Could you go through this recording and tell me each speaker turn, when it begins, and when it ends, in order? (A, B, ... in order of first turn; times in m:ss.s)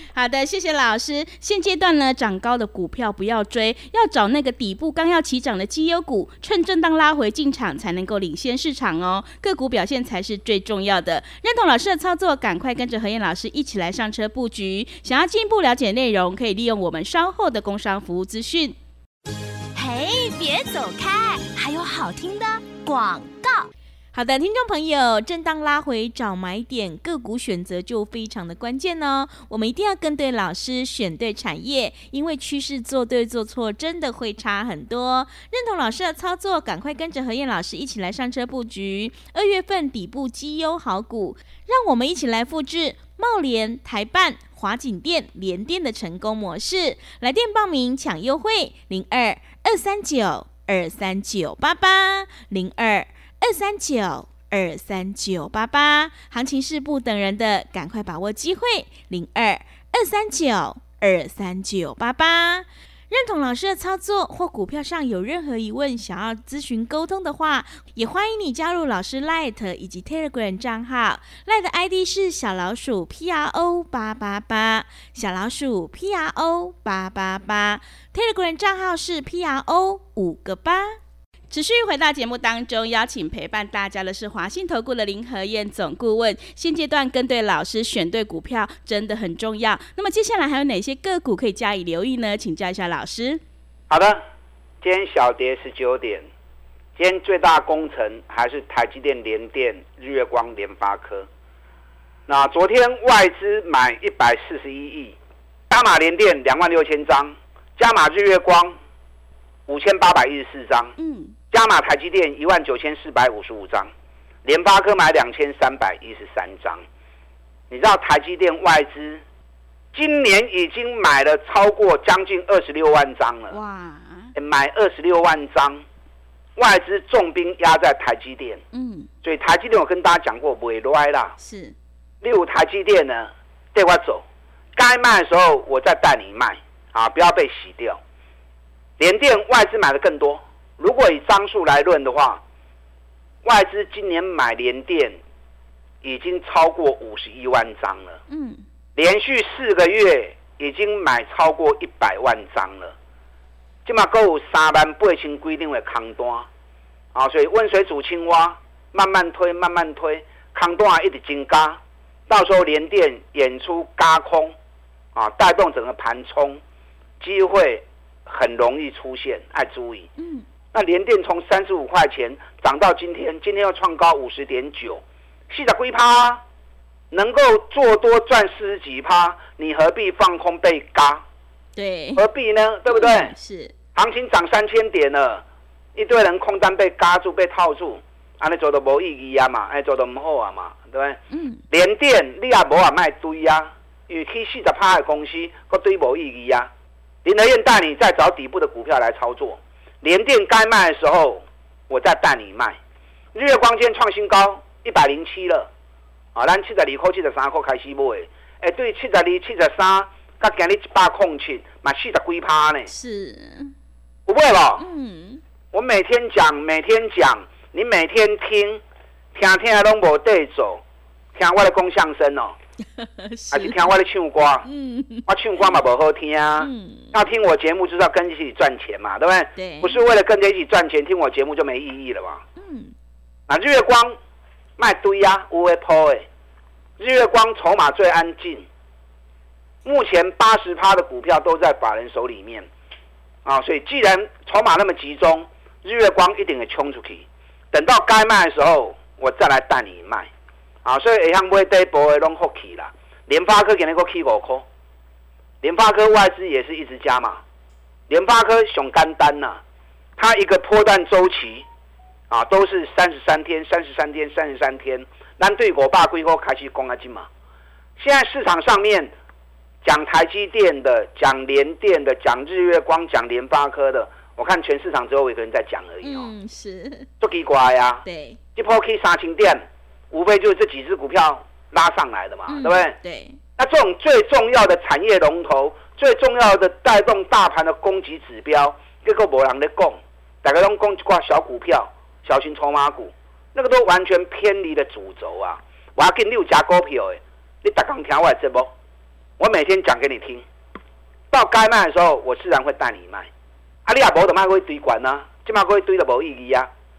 0:00.1-0:18.8 A
0:19.8-0:23.7 B
0:24.1-1:21.0 A
1:21.5-1:33.4 A
1:33.9-1:34.2 C
1:34.8-1:36.3 C
1:37.0-1:41.3 C
1:42.3-1:45.2 C
1:45.7-1:48.8 C
1:49.7-1:50.9 C
1:51.0-1:51.4 A
1:51.5-1:53.9 C
1:54.4-1:56.8 C
1:57.7-1:59.2 C
1:59.9-2:03.6 C
2:03.5-2:04.3 A
2:04.4-2:05.8 C
2:06.6-2:08.6 C
2:08.7-2:09.1 A
2:09.2-2:11.3 C
2:11.4-2:11.8 A
2:12.2-2:14.2 C
2:14.8-2:18.0 C
2:19.0-2:22.4 C
2:23.4-2:25.2 C
2:26.0-2:28.2 C
2:28.3-2:28.6 A
2:29.0-2:33.0 C
2:33.9-2:36.5 C
2:37.1-2:44.5 C
2:45.2-2:46.6 C
2:47.2-2:50.1 C
2:50.2-2:50.4 A
2:50.7-2:56.4 C
2:57.1-3:01.2 C
3:01.8-3:02.2 A
3:02.2-3:03.3 C
3:02.9-3:03.7 A
3:04.0-3:05.4 C
3:06.0-3:11.2 C
3:11.3-3:11.6 A
3:11.7-3:16.7 C
3:17.2-3:22.8 C
3:23.3-3:25.7 C
3:26.4-3:32.9 C
3:32.9-3:33.7 A
3:34.3-3:34.8 C
3:34.8-3:35.4 A
3:35.7-3:38.8 C
3:39.4-3:40.8 C
3:41.4-3:42.5 C
3:43.0-3:43.9 A
3:43.5-3:44.7 C
3:44.6-3:45.7 A
3:45.3-3:52.4 C
3:46.6-3:47.2 A
3:49.6-3:50.0 A
3:52.6-3:52.9 A
3:53.5-3:54.2 C
3:54.8-3:56.3 C
3:57.0-3:58.7 C
3:59.8-4:02.7 C
4:03.4-4:10.3 C
4:10.8-4:14.6 C
4:15.6-4:17.4 C
4:18.1-4:19.6 C
4:20.2-4:21.7 C
4:22.3-4:27.3 C
4:28.0-4:29.1 C
4:29.8-4:36.3 C
4:36.0-4:37.1 A
4:37.2-4:38.0 C
4:38.0-4:38.4 A
4:38.6-4:43.0 C
4:42.5-4:43.4 A
4:43.6-4:58.7 C
4:59.4-5:00.4 C
5:01.3-5:03.3 C
5:03.9-5:06.7 C